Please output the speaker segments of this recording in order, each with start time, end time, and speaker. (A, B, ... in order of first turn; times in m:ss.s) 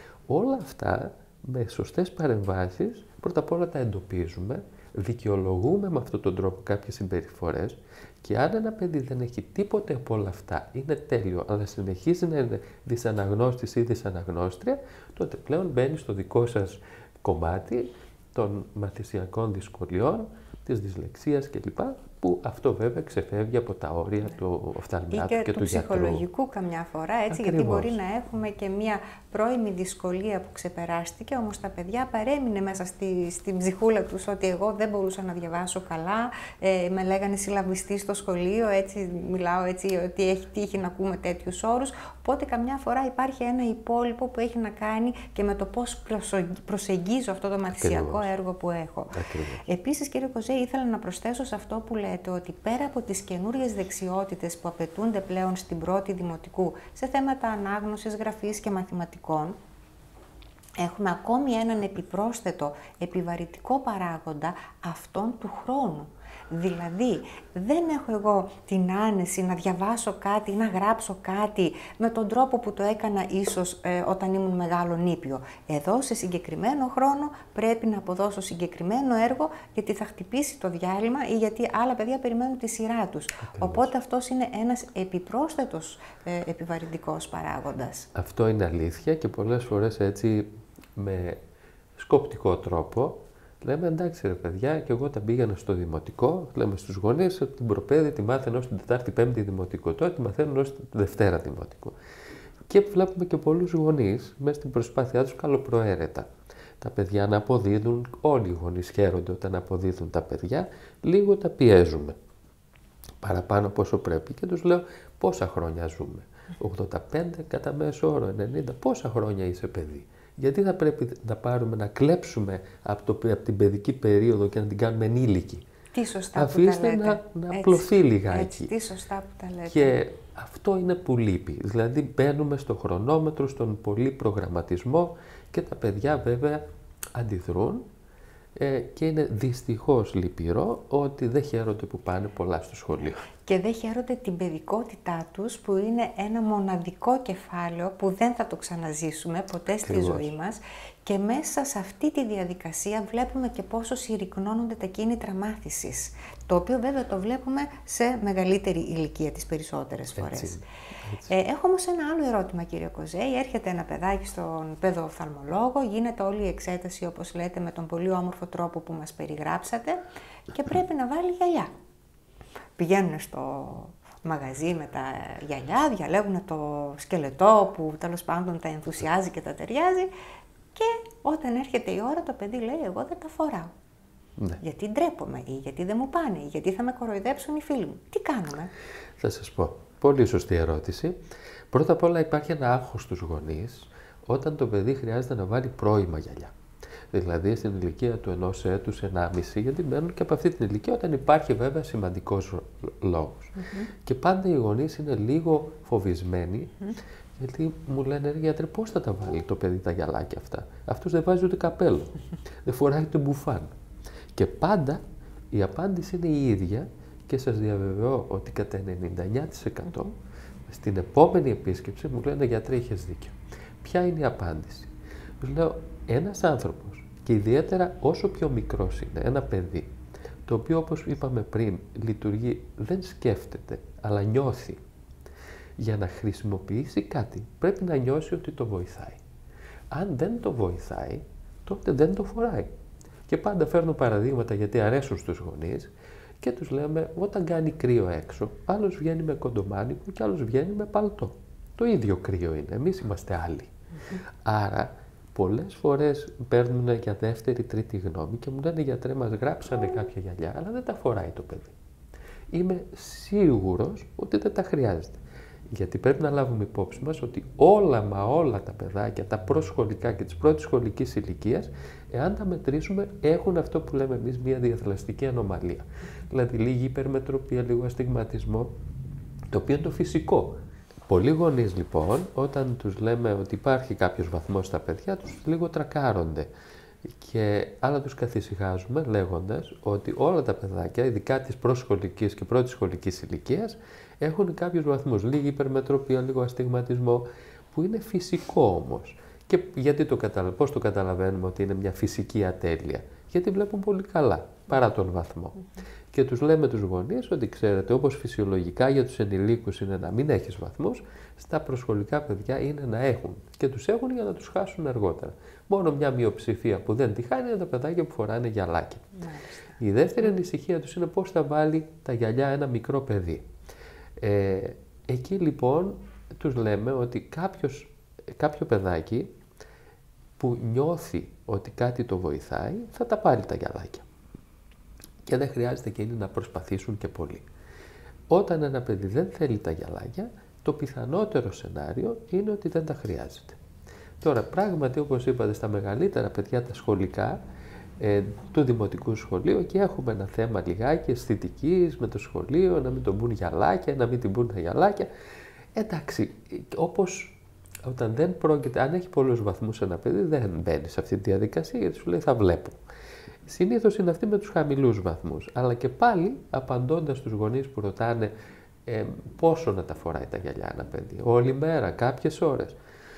0:00.3-0:26.2 A
0:25.1-0:59.6 B
0:27.3-0:28.0 A
0:47.7-0:48.2 A
0:49.1-0:49.6 A
1:00.8-1:28.1 B
1:23.4-1:23.9 A
1:28.1-1:31.4 A
1:32.0-1:42.0 A
1:42.7-1:52.2 A
1:53.2-2:05.6 A
2:05.9-2:10.0 B
2:06.3-2:08.7 A
2:09.7-2:16.6 A
2:17.1-2:17.8 A
2:18.6-2:23.2 A
2:23.4-2:40.6 B
2:29.8-2:30.3 A
2:40.2-2:41.3 A
2:41.2-2:51.7 B
2:52.8-3:00.1 B
3:00.7-3:03.7 B
3:04.6-3:08.7 B
3:09.2-3:11.2 A
3:11.7-3:16.5 A
3:17.1-3:33.7 A
3:23.6-3:23.9 B
3:34.3-3:40.1 A
3:40.7-3:49.9 A
3:50.4-3:54.8 A
3:55.8-3:59.2 A
3:59.9-4:02.7 A
4:03.3-4:13.7 A
4:14.4-4:21.7 A
4:22.5-4:38.7 A
4:39.5-4:46.5 A
4:47.0-5:05.6 A
5:06.1-5:19.2 A
5:19.2-5:19.8 B
5:19.8-5:23.4 A
5:24.2-5:29.3 A
5:30.4-5:34.0 A
5:35.2-5:37.5 A
5:38.3-5:43.6 A
5:44.2-5:47.4 A
5:48.0-5:55.1 A
5:55.7-6:02.8 A
6:03.4-6:08.3 A
6:08.8-6:12.8 A